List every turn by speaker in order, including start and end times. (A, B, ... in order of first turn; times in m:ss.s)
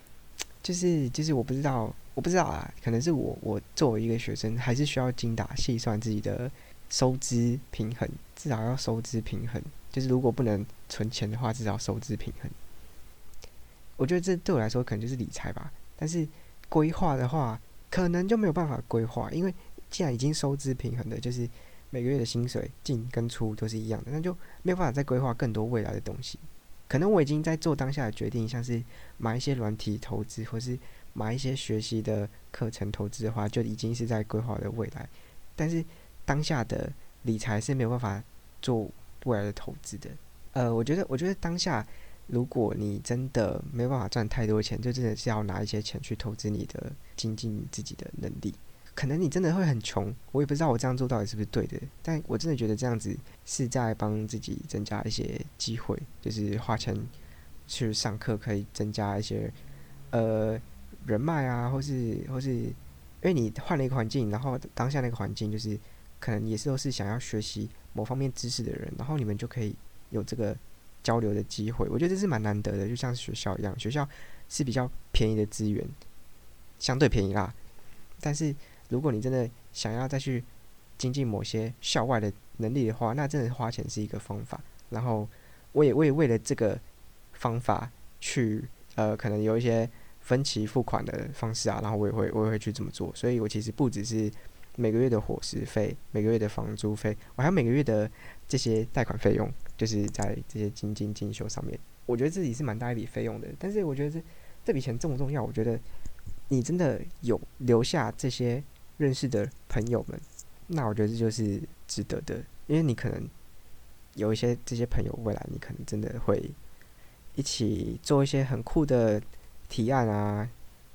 0:00.6-0:12.6 A
0:14.0-0:57.1 A
0:57.7-0:59.6 A
1:00.1-1:16.0 A
1:16.8-1:17.6 A
1:18.2-1:20.5 A
1:21.0-1:26.8 A
1:27.3-1:45.8 A
1:46.5-1:53.3 A
1:54.2-1:56.6 A
1:57.4-2:00.5 A